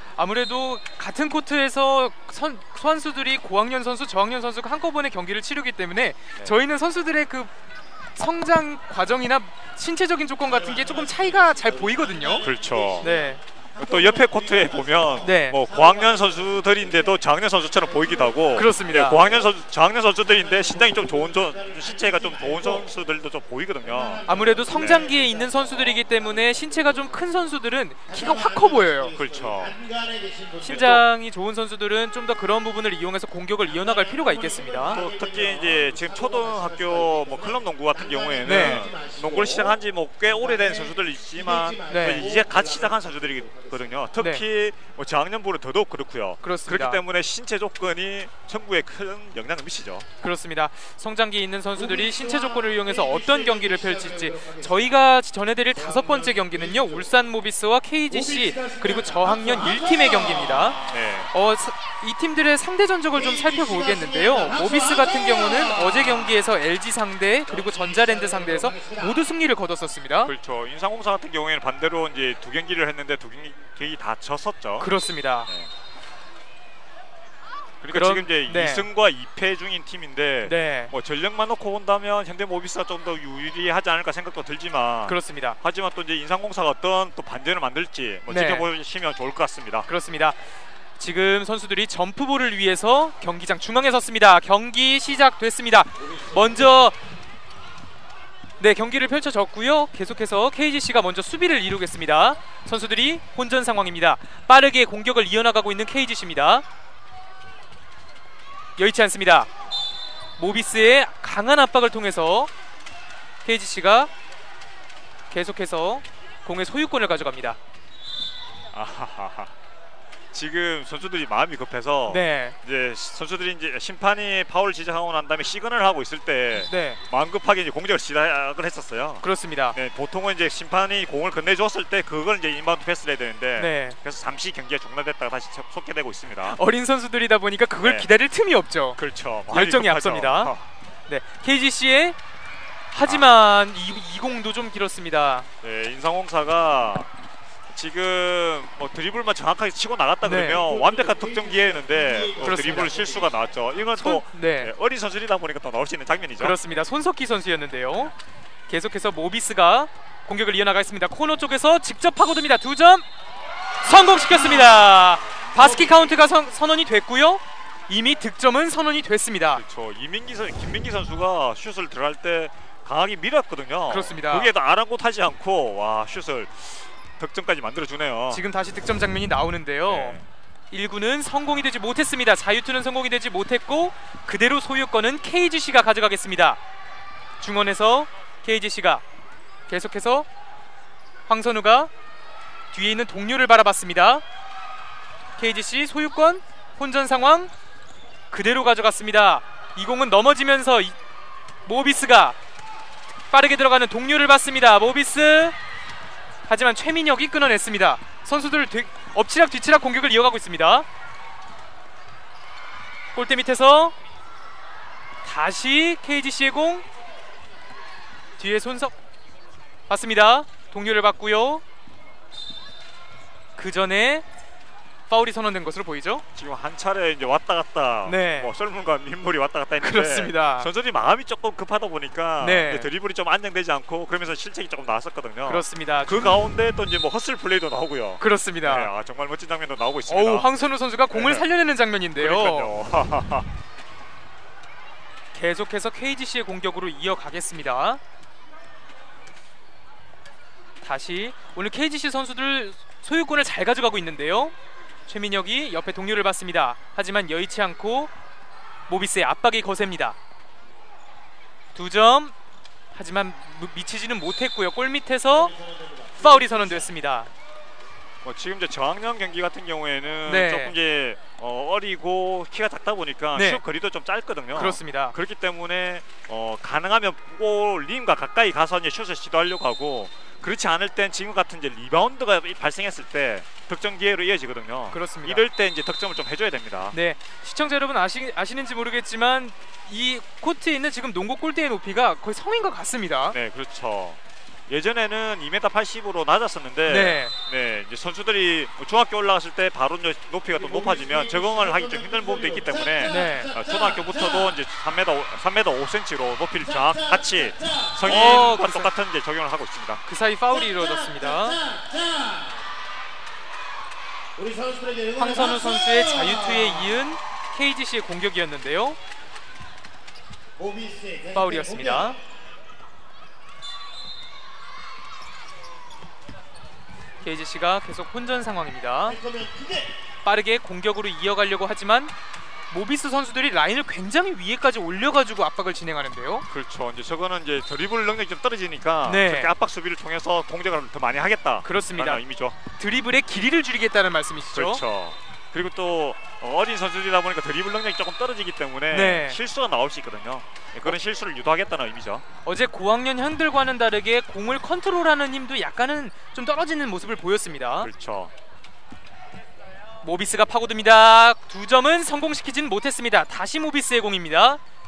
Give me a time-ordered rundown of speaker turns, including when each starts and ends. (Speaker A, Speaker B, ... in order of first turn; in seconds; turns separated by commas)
Speaker A: 0.1-7.5, Speaker A: 8.2-12.5, Speaker B: 10.4-19.5, Speaker C: 12.4-13.1, Speaker A: 13.0-13.4, Speaker C: 13.8-25.1, Speaker A: 15.2-15.6, Speaker A: 18.5-19.2, Speaker B: 20.2-22.9, Speaker B: 23.8-27.2, Speaker A: 24.3-29.1, Speaker B: 28.1-31.0, Speaker C: 29.1-29.7, Speaker A: 30.6-35.0, Speaker B: 33.6-44.0, Speaker C: 34.9-50.1, Speaker A: 38.4-38.8, Speaker A: 41.9-42.2, Speaker A: 44.2-44.4, Speaker A: 46.4-47.0, Speaker A: 50.2-70.3, Speaker B: 51.8-54.9, Speaker B: 55.7-57.1, Speaker B: 58.1-60.9, Speaker C: 60.8-61.3, Speaker B: 63.1-66.4, Speaker B: 67.5-69.2, Speaker C: 70.2-74.9, Speaker A: 74.8-75.5, Speaker C: 77.8-89.9, Speaker A: 77.9-78.9, Speaker A: 80.4-80.9, Speaker A: 85.0-85.6, Speaker A: 88.3-88.7, Speaker A: 89.9-90.4, Speaker A: 91.0-97.0, Speaker B: 96.0-96.7, Speaker A: 98.6-106.6, Speaker A: 108.8-109.5, Speaker A: 110.4-112.5, Speaker A: 113.4-114.1, Speaker A: 115.3-117.6, Speaker C: 118.7-119.5, Speaker C: 120.3-136.6, Speaker A: 122.1-122.5, Speaker A: 126.5-127.0, Speaker A: 129.2-129.8, Speaker A: 133.6-133.9, Speaker A: 136.5-140.5, Speaker C: 137.8-138.1, Speaker C: 139.0-140.7, Speaker A: 141.1-142.2, Speaker A: 142.9-145.5, Speaker C: 145.6-147.1, Speaker C: 147.7-156.6, Speaker A: 150.2-150.6, Speaker B: 150.4-153.3, Speaker A: 152.4-152.9, Speaker A: 154.0-154.7, Speaker A: 156.4-158.1, Speaker A: 158.7-163.1, Speaker A: 163.8-169.6, Speaker B: 165.6-166.1, Speaker C: 169.5-178.4, Speaker A: 173.9-174.5, Speaker A: 178.3-180.2, Speaker C: 179.8-180.3, Speaker A: 180.7-186.6, Speaker A: 187.4-189.0, Speaker A: 189.7-190.3, Speaker A: 191.3-191.9, Speaker A: 192.7-194.2, Speaker A: 195.4-197.5, Speaker A: 198.3-200.9, Speaker A: 201.7-202.4, Speaker A: 203.3-205.5, Speaker A: 206.4-210.8, Speaker A: 213.1-213.9, Speaker A: 215.2-216.8, Speaker A: 218.4-218.9, Speaker A: 219.9-221.6, Speaker A: 223.6-224.2, Speaker A: 225.1-226.2, Speaker C: 226.3-240.5, Speaker A: 228.0-228.5, Speaker A: 229.8-230.7, Speaker A: 232.4-232.9, Speaker A: 235.4-236.4, Speaker A: 238.2-238.9, Speaker A: 240.1-242.7, Speaker C: 241.1-241.5, Speaker C: 242.2-243.5, Speaker A: 245.3-248.0, Speaker A: 250.8-254.5, Speaker A: 255.1-258.1, Speaker A: 258.9-260.2, Speaker A: 261.7-262.3, Speaker A: 262.9-265.5, Speaker B: 265.3-266.9, Speaker A: 266.2-267.3, Speaker C: 268.2-287.0, Speaker A: 270.2-270.7, Speaker A: 273.3-273.6, Speaker A: 274.5-275.1, Speaker A: 284.9-285.4, Speaker A: 286.9-293.4, Speaker C: 293.3-310.0, Speaker A: 296.9-297.3, Speaker B: 300.5-304.6, Speaker A: 303.1-303.5, Speaker B: 306.6-308.4, Speaker A: 308.0-308.9, Speaker A: 310.0-311.6, Speaker B: 310.5-312.7, Speaker B: 314.4-317.0, Speaker A: 315.2-319.0, Speaker B: 320.6-322.2, Speaker A: 321.3-322.2, Speaker A: 327.2-329.2, Speaker B: 329.1-330.0, Speaker A: 330.2-332.1, Speaker A: 332.7-336.5, Speaker C: 336.5-342.6, Speaker A: 339.1-339.5, Speaker A: 341.6-342.2, Speaker A: 342.7-344.8, Speaker C: 344.5-352.2, Speaker A: 348.9-349.4, Speaker A: 352.4-357.9, Speaker C: 357.8-358.3, Speaker A: 360.0-364.6